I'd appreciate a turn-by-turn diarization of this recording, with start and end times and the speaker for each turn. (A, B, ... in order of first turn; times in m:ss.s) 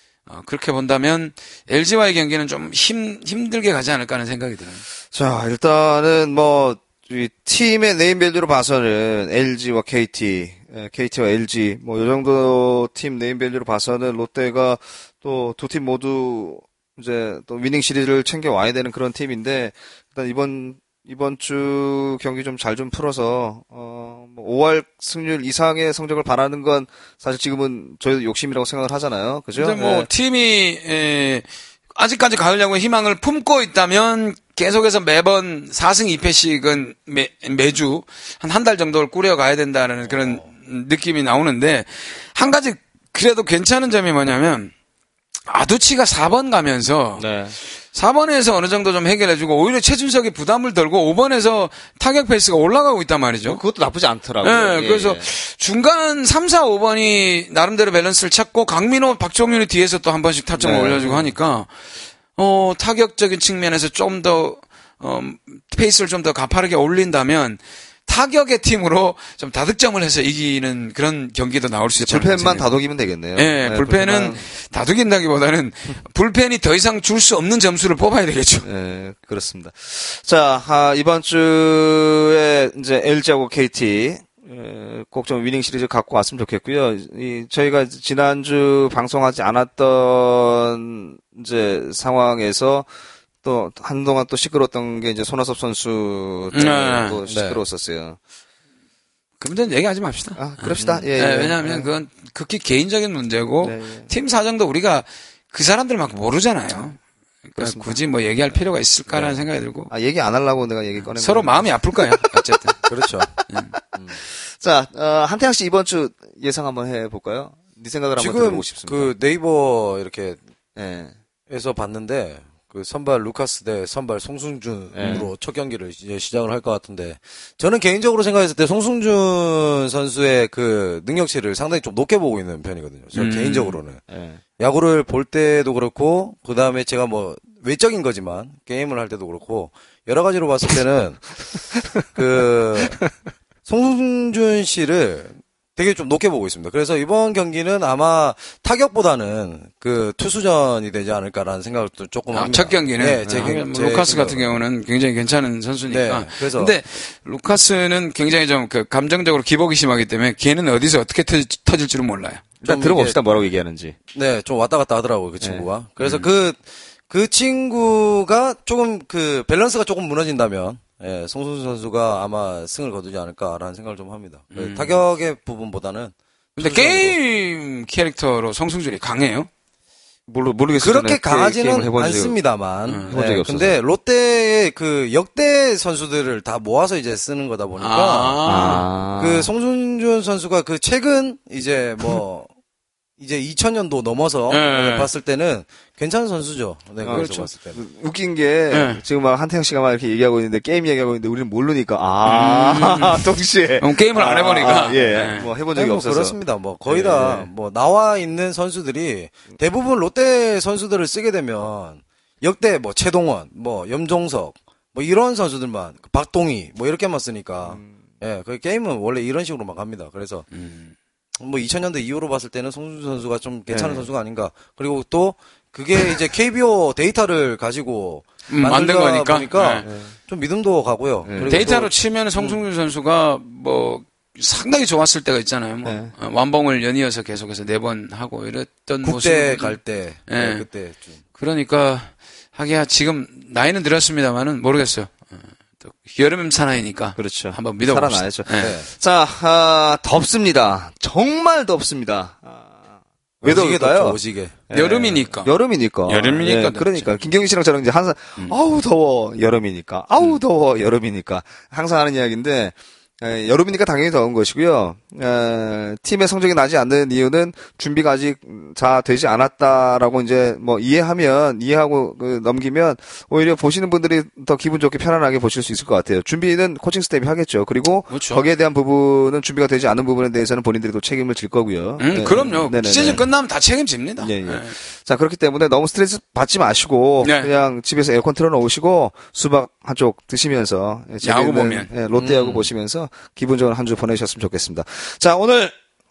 0:00.3-0:04.8 A
0:05.1-0:30.1 B
0:29.5-0:44.7 A
0:40.0-0:40.5 C
0:45.5-0:53.6 A
0:47.2-0:47.6 B
0:53.4-0:55.3 B
0:54.4-1:01.7 A
1:00.6-1:01.3 B
1:02.4-1:12.7 A
1:11.9-1:14.4 B
1:13.3-1:18.7 A
1:18.6-1:32.9 B
1:33.4-1:38.2 B
1:36.5-1:37.2 A
1:37.3-1:37.6 C
1:39.4-1:47.0 A
1:40.4-1:41.9 B
1:43.6-1:44.1 B
1:47.5-1:49.9 A
1:47.6-1:48.0 B
1:49.9-1:52.2 B
1:51.2-1:52.8 A
1:52.8-1:53.4 C
1:53.5-1:53.7 A
1:53.9-1:54.2 C
1:54.4-1:59.1 B
1:58.2-2:00.4 C
2:00.8-2:01.1 B
2:01.5-2:14.0 C
2:04.9-2:05.3 B
2:13.1-2:13.8 A
2:14.1-2:14.4 B
2:14.6-2:21.4 C
2:22.0-2:23.1 C
2:23.6-2:34.6 C
2:32.3-2:42.4 A
2:35.9-2:36.8 C
2:42.6-2:44.0 B
2:42.6-2:43.2 C
2:44.1-2:57.2 C
2:45.4-2:46.2 B
2:54.5-2:55.0 A
2:56.6-2:59.5 A
3:00.3-3:02.4 B
3:00.8-3:12.5 C
3:02.8-3:03.1 A
3:03.1-3:03.8 B
3:07.8-3:08.9 A
3:08.4-3:09.5 B
3:13.2-3:17.8 C
3:14.5-3:15.1 A
3:17.0-3:26.4 B
3:17.1-3:17.5 A
3:18.7-3:19.0 A
3:22.2-3:23.2 A
3:23.8-3:25.5 A
3:24.7-3:40.4 C
3:26.9-3:27.5 B
3:37.6-3:37.9 B
3:40.5-3:40.9 A
3:41.4-3:52.6 C
3:43.7-3:44.1 B
3:48.5-3:49.9 A
3:49.8-3:50.1 B
3:51.2-3:51.7 B
3:51.4-4:00.6 A
3:55.8-3:56.1 B
3:59.0-4:01.2 C
4:01.4-4:08.8 A
4:07.2-4:12.7 B
4:08.6-4:08.9 C
4:13.4-4:14.2 B
4:13.4-4:14.6 C
4:14.7-4:43.2 B
4:14.7-4:15.5 A
4:16.1-4:17.1 A
4:38.1-4:38.4 A
4:42.0-4:44.8 A
4:44.2-4:55.7 B
4:47.2-4:47.5 A
4:51.2-4:51.9 A
4:52.1-4:52.7 C